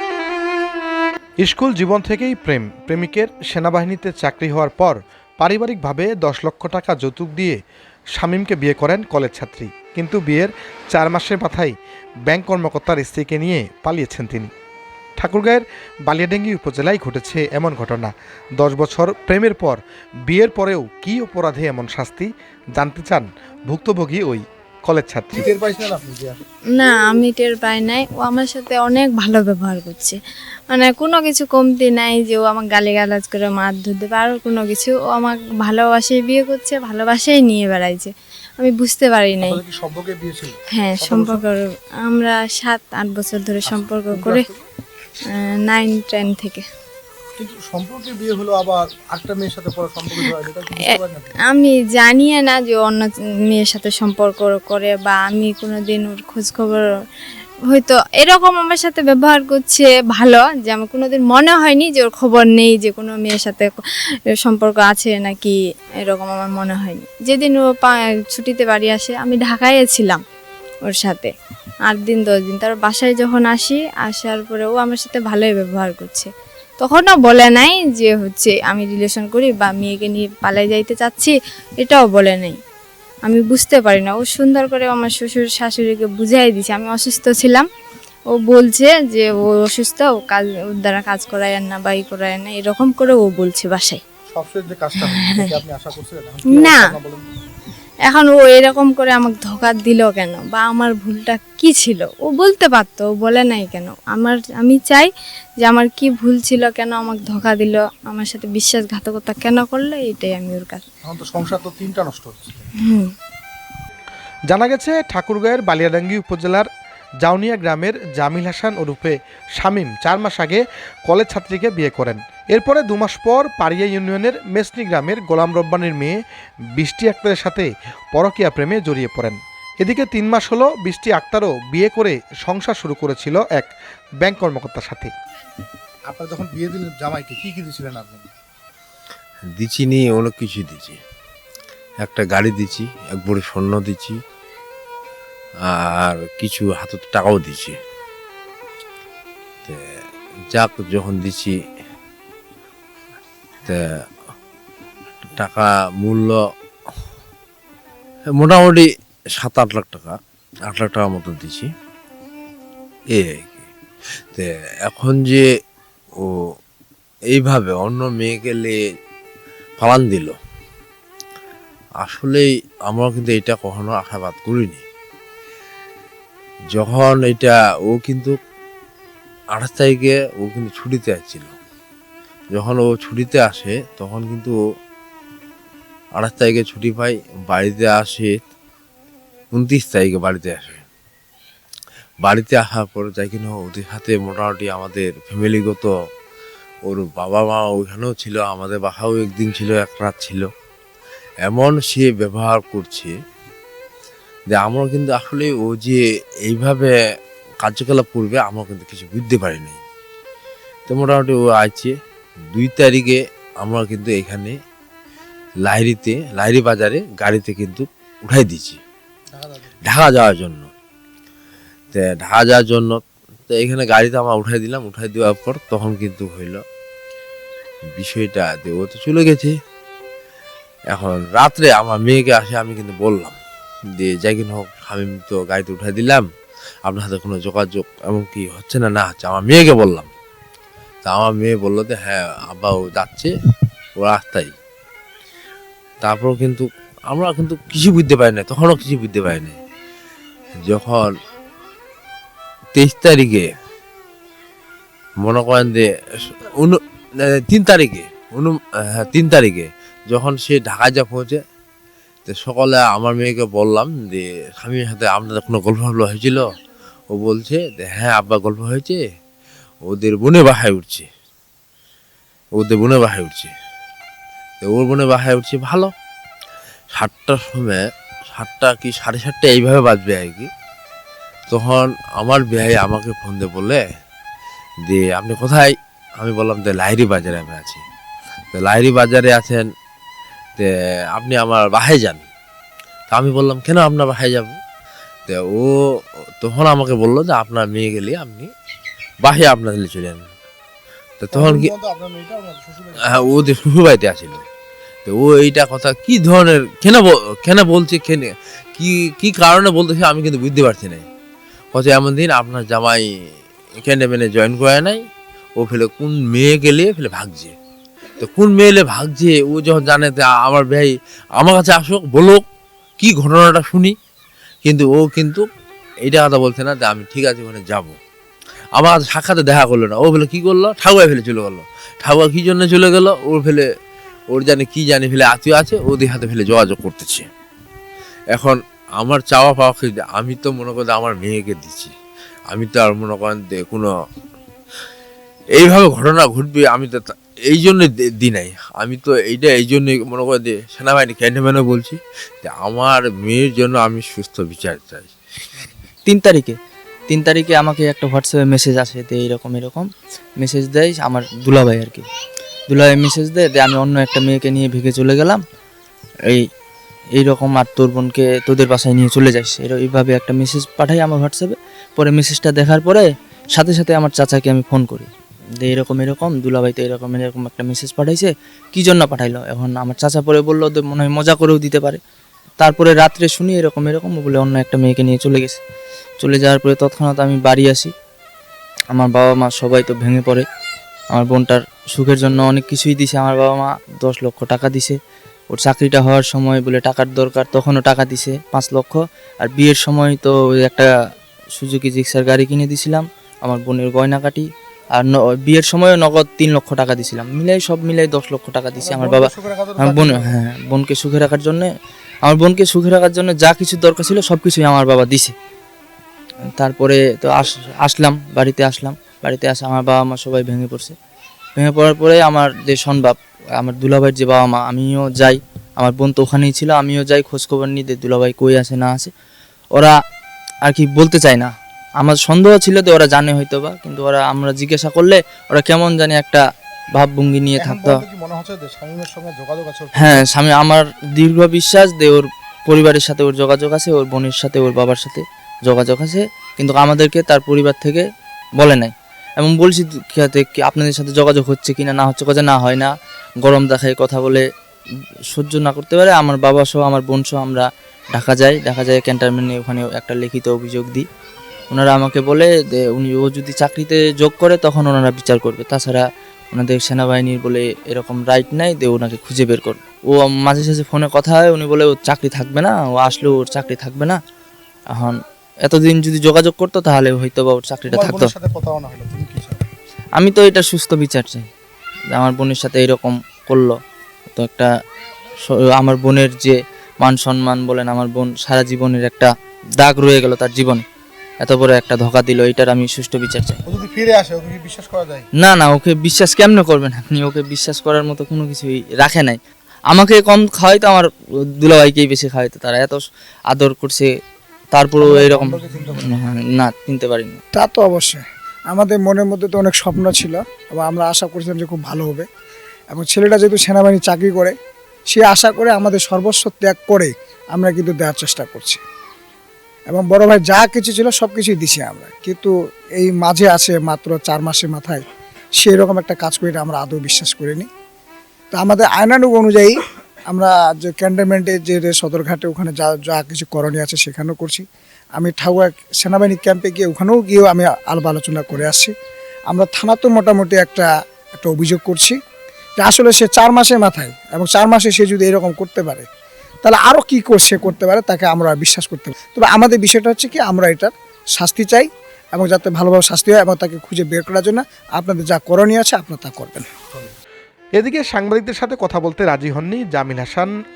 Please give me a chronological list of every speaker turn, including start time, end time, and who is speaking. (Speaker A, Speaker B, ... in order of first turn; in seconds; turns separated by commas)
Speaker A: 1.4-7.6, Speaker A: 8.2-11.7, Speaker A: 12.3-14.5, Speaker A: 15.2-19.8, Speaker A: 20.3-25.5, Speaker B: 25.3-26.4, Speaker C: 26.8-39.6, Speaker B: 39.4-41.5, Speaker C: 40.8-44.5, Speaker B: 43.6-44.7, Speaker C: 45.3-46.7, Speaker B: 47.4-51.3, Speaker C: 50.2-56.9, Speaker C: 57.7-63.8, Speaker C: 64.4-70.2, Speaker C: 70.9-71.3, Speaker C: 71.9-82.6, Speaker C: 83.3-87.7, Speaker C: 88.3-94.0, Speaker B: 94.3-97.3, Speaker C: 95.1-95.5, Speaker C: 96.6-96.9, Speaker C: 98.1-105.1, Speaker C: 105.6-110.8, Speaker B: 111.0-112.7, Speaker A: 114.5-116.7, Speaker A: 117.2-126.2, Speaker A: 126.8-133.7, Speaker A: 134.2-135.1, Speaker B: 136.1-138.3, Speaker D: 139.6-141.0, Speaker D: 142.0-144.2, Speaker D: 145.7-147.8, Speaker D: 150.5-151.5, Speaker D: 155.3-156.4, Speaker D: 158.4-158.9, Speaker D: 159.4-160.2, Speaker D: 160.7-161.7, Speaker D: 163.1-163.7, Speaker D: 164.3-165.4, Speaker D: 167.3-168.8, Speaker D: 169.8-170.4, Speaker D: 172.0-174.8, Speaker D: 176.7-178.3, Speaker D: 179.6-181.6, Speaker D: 182.5-184.6, Speaker D: 186.2-188.4, Speaker D: 189.5-190.8, Speaker D: 192.2-195.9, Speaker D: 196.9-200.5, Speaker D: 201.5-203.1, Speaker D: 204.5-206.9, Speaker D: 207.6-209.8, Speaker D: 210.9-214.5, Speaker D: 215.7-218.8, Speaker B: 219.3-219.8, Speaker D: 219.9-220.7, Speaker D: 221.9-226.6, Speaker D: 227.9-229.6, Speaker D: 230.9-233.4, Speaker D: 234.0-236.3, Speaker D: 236.9-240.1, Speaker D: 241.0-243.3, Speaker D: 244.0-244.5, Speaker D: 246.0-249.6, Speaker D: 250.7-251.1, Speaker D: 252.7-253.5, Speaker D: 255.2-256.8, Speaker D: 257.5-261.4, Speaker D: 262.3-266.4, Speaker D: 267.1-269.0, Speaker D: 269.9-271.1, Speaker D: 272.6-273.5, Speaker D: 274.6-275.9, Speaker D: 276.9-280.5, Speaker D: 281.5-283.8, Speaker D: 284.9-287.8, Speaker D: 288.5-289.6, Speaker D: 290.6-292.3, Speaker D: 293.1-294.6, Speaker D: 295.3-295.7, Speaker D: 296.4-298.5, Speaker D: 299.2-300.2, Speaker D: 301.2-301.7, Speaker B: 301.3-303.7, Speaker D: 303.1-304.4, Speaker D: 305.1-311.1, Speaker D: 311.7-313.1, Speaker D: 313.8-315.0, Speaker D: 315.6-317.6, Speaker D: 318.2-322.4, Speaker D: 323.0-323.9, Speaker D: 324.6-325.5, Speaker D: 326.1-328.0, Speaker D: 328.8-333.7, Speaker D: 334.3-337.3, Speaker D: 338.3-341.9, Speaker D: 342.5-343.9, Speaker D: 345.6-355.1, Speaker E: 356.1-356.6, Speaker E: 357.1-362.1, Speaker E: 362.7-365.4, Speaker E: 367.2-375.1, Speaker E: 375.6-382.0, Speaker E: 382.6-385.6, Speaker E: 386.2-387.9, Speaker E: 388.9-390.4, Speaker E: 391.1-395.0, Speaker E: 395.5-400.9, Speaker E: 401.6-411.7, Speaker B: 408.8-410.4, Speaker E: 412.2-415.3, Speaker E: 416.6-421.0, Speaker E: 421.6-429.1, Speaker E: 430.6-436.4, Speaker E: 436.9-438.0, Speaker B: 437.6-440.2, Speaker E: 439.9-448.1, Speaker E: 448.6-452.9, Speaker E: 453.4-454.4, Speaker E: 455.3-461.1, Speaker E: 461.7-474.2, Speaker E: 474.9-478.3, Speaker B: 477.9-479.7, Speaker E: 480.2-481.4, Speaker E: 482.1-483.8, Speaker E: 484.3-484.7, Speaker E: 485.4-490.8, Speaker E: 491.4-493.6, Speaker B: 493.6-495.3, Speaker E: 495.4-499.4, Speaker E: 499.9-504.1, Speaker E: 504.7-507.4, Speaker B: 505.0-506.1, Speaker F: 507.5-512.3, Speaker F: 512.9-514.5, Speaker F: 515.1-518.8, Speaker F: 519.9-525.0, Speaker F: 525.6-527.7, Speaker F: 528.5-529.8, Speaker F: 530.3-534.6, Speaker F: 535.2-538.9, Speaker F: 539.5-540.9, Speaker F: 541.4-542.2, Speaker F: 542.8-546.1, Speaker F: 546.6-556.7, Speaker A: 557.8-560.5